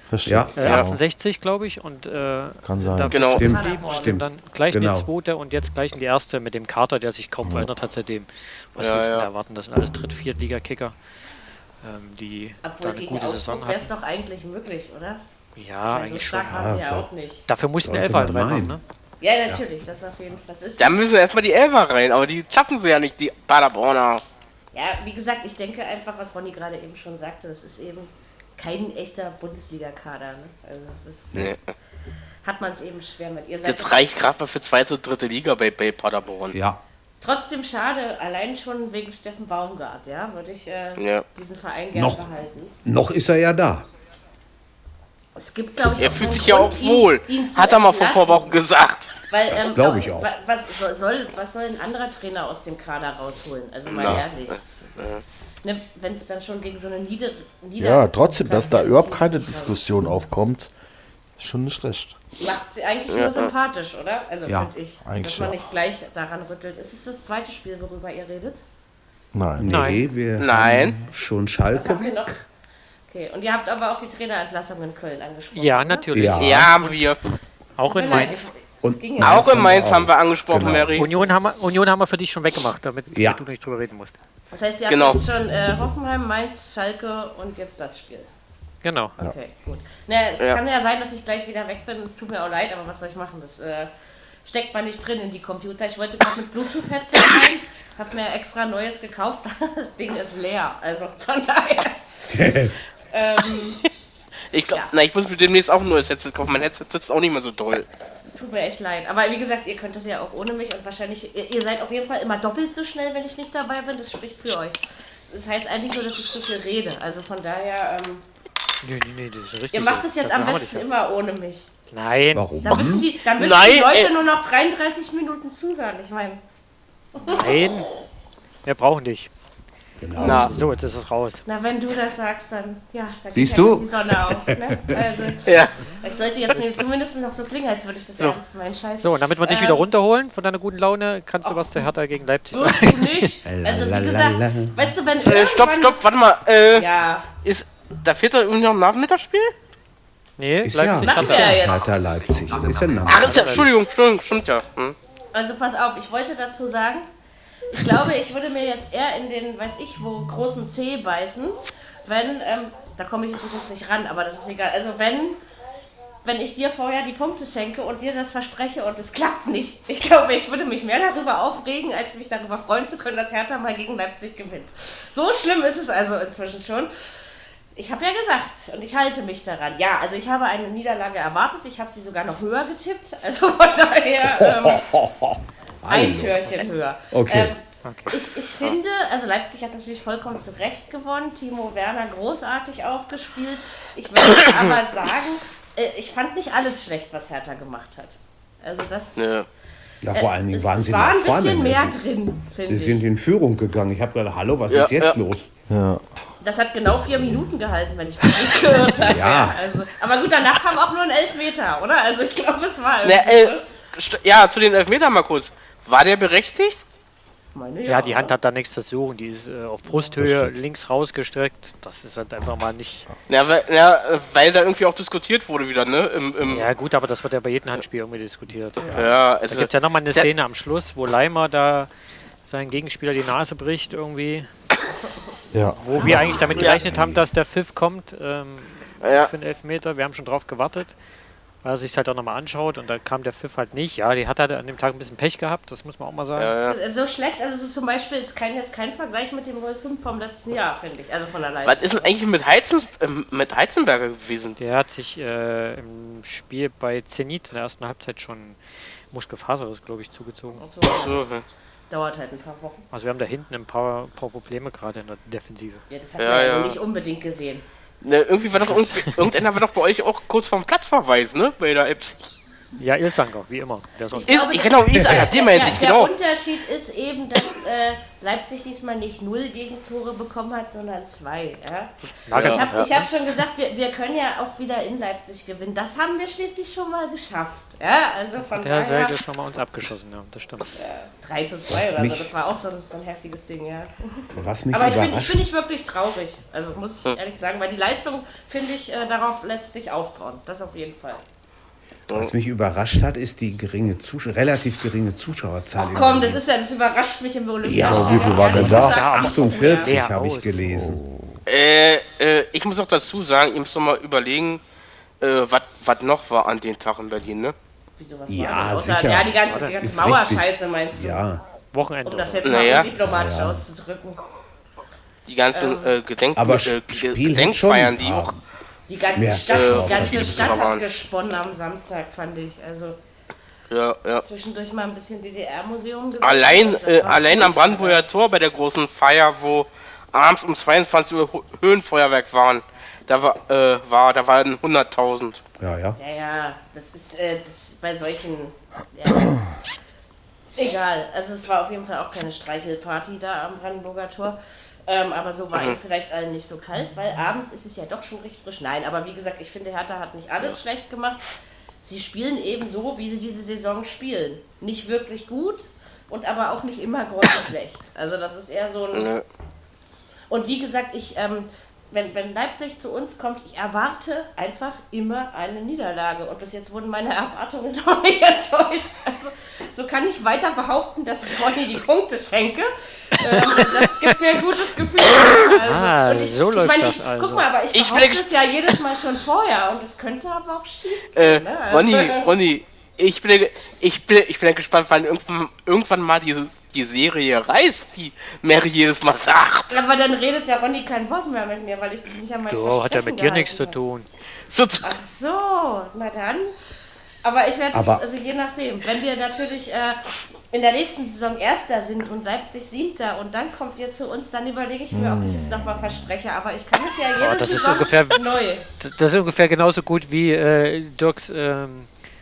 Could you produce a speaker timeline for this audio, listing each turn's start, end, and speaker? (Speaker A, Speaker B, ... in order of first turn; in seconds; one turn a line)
Speaker A: 0.1-1.0
Speaker B: 0.3-0.6
Speaker C: 0.6-10.9
Speaker A: 2.6-3.4
Speaker D: 3.1-3.5
Speaker E: 3.3-4.2
Speaker B: 3.4-5.1
Speaker A: 7.4-7.7
Speaker D: 8.8-9.3
Speaker C: 11.8-13.9
Speaker E: 12.6-15.2
Speaker C: 15.6-16.8
Speaker E: 15.9-17.4
Speaker B: 16.4-17.1
Speaker C: 17.5-18.8
Speaker B: 17.8-18.8
Speaker E: 19.2-21.1
Speaker D: 20.8-24.2
Speaker E: 24.7-31.5
Speaker D: 31.3-31.6
Speaker E: 32.4-34.0
Speaker D: 33.6-36.6
Speaker B: 36.5-36.8
Speaker E: 37.2-42.7
Speaker D: 41.0-41.3
Speaker B: 41.9-42.3
Speaker B: 42.8-43.9
Speaker E: 45.4-48.6
Speaker D: 45.9-49.2
Speaker E: 49.3-54.6
Speaker B: 49.5-50.4
Speaker D: 53.9-54.2
Speaker D: 55.0-55.2
Speaker E: 55.6-60.1
Speaker A: 57.8-60.7
Speaker A: 61.4-62.2
Speaker E: 62.4-68.6
Speaker D: 63.1-63.5
Speaker B: 64.5-64.7
Speaker A: 65.0-65.6
Speaker A: 69.3-69.8
Speaker B: 69.6-72.5
Speaker C: 69.6-70.1
Speaker D: 70.4-71.0
Speaker E: 71.7-72.3
Speaker E: 73.1-76.1
Speaker C: 75.5-77.0
Speaker B: 76.1-76.7
Speaker D: 76.4-77.2
Speaker C: 77.8-78.5
Speaker E: 77.8-79.6
Speaker B: 78.8-81.0
Speaker D: 79.2-81.1
Speaker C: 81.0-84.2
Speaker B: 83.1-83.4
Speaker E: 84.5-88.3
Speaker D: 84.9-85.2
Speaker C: 88.8-89.2
Speaker E: 89.2-93.9
Speaker E: 94.5-103.9
Speaker B: 102.3-102.8
Speaker D: 104.5-107.9
Speaker E: 108.3-118.2
Speaker C: 118.8-120.9
Speaker E: 119.7-121.7
Speaker C: 121.9-122.5
Speaker B: 122.3-123.1
Speaker E: 122.6-126.4
Speaker D: 123.3-124.1
Speaker E: 127.1-127.5
Speaker C: 127.2-127.9
Speaker C: 128.7-129.3
Speaker B: 130.0-130.6
Speaker C: 130.2-131.4
Speaker D: 130.2-130.5
Speaker E: 130.2-130.5
Speaker E: 131.5-139.8
Speaker B: 133.3-135.2
Speaker D: 135.4-135.8
Speaker C: 139.0-143.3
Speaker E: 141.4-141.8
Speaker E: 142.5-146.0
Speaker B: 143.4-145.0
Speaker D: 145.2-149.5
Speaker E: 146.8-147.3
Speaker C: 150.4-151.7
Speaker B: 150.6-153.7
Speaker E: 151.0-151.9
Speaker D: 153.1-155.0
Speaker C: 153.1-153.6
Speaker E: 155.3-157.1
Speaker E: 157.7-165.4
Speaker E: 166.2-176.9
Speaker E: 177.8-184.9
Speaker B: 184.3-186.5
Speaker E: 185.9-199.4
Speaker B: 187.1-187.6
Speaker C: 187.8-188.2
Speaker D: 199.2-199.5
Speaker B: 200.0-202.0
Speaker E: 200.1-203.0
Speaker B: 202.6-205.5
Speaker D: 204.7-205.2
Speaker A: 205.7-206.1
Speaker E: 206.4-213.6
Speaker B: 209.0-209.6
Speaker D: 213.0-216.8
Speaker E: 217.5-218.3
Speaker C: 217.9-223.1
Speaker A: 220.2-220.5
Speaker D: 223.3-226.7
Speaker C: 226.5-229.0
Speaker D: 228.9-230.3
Speaker C: 229.5-231.9
Speaker C: 232.4-234.5
Speaker A: 235.5-237.2
Speaker C: 235.8-240.9
Speaker D: 239.0-239.3
Speaker C: 241.6-246.5
Speaker D: 246.4-246.8
Speaker E: 246.7-252.2
Speaker D: 251.6-254.6
Speaker C: 254.6-258.6
Speaker C: 259.1-260.6
Speaker E: 260.6-261.3
Speaker D: 260.8-261.4
Speaker E: 261.9-262.9
Speaker C: 262.9-265.9
Speaker E: 265.9-267.6
Speaker D: 266.2-266.8
Speaker D: 268.0-272.3
Speaker C: 268.6-269.3
Speaker C: 272.8-274.5
Speaker E: 274.1-289.2
Speaker D: 274.3-276.1
Speaker B: 274.9-275.3
Speaker C: 282.1-283.1
Speaker D: 282.3-282.9
Speaker C: 288.4-290.8
Speaker E: 290.8-301.2
Speaker B: 291.7-292.3
Speaker B: 294.3-295.4
Speaker B: 302.1-306.4
Speaker E: 305.8-310.0
Speaker B: 307.6-311.0
Speaker A: 307.8-309.0
Speaker C: 308.5-310.6
Speaker A: 310.7-311.3
Speaker D: 311.5-314.6
Speaker D: 315.2-317.6
Speaker E: 318.0-321.2
Speaker B: 318.3-321.4
Speaker C: 319.5-319.9
Speaker C: 321.7-322.8
Speaker E: 322.1-324.2
Speaker D: 322.4-322.9
Speaker B: 323.0-323.6
Speaker D: 325.3-328.3
Speaker E: 325.5-325.9
Speaker B: 326.4-328.4
Speaker E: 328.9-333.0
Speaker B: 329.1-330.7
Speaker D: 329.4-330.9
Speaker D: 333.7-334.2
Speaker E: 334.2-338.1
Speaker D: 336.2-345.4
Speaker B: 345.6-346.0
Speaker E: 346.0-349.4
Speaker E: 350.6-361.2
Speaker E: 361.8-369.1
Speaker D: 368.9-369.2
Speaker E: 370.3-392.3
Speaker C: 385.6-387.5
Speaker D: 387.7-388.3
Speaker D: 391.1-399.8
Speaker E: 399.7-403.8
Speaker C: 402.5-404.1
Speaker D: 404.5-404.9
Speaker E: 404.8-406.5
Speaker E: 407.2-418.7
Speaker B: 407.7-408.0
Speaker A: 414.9-416.0
Speaker C: 417.2-421.9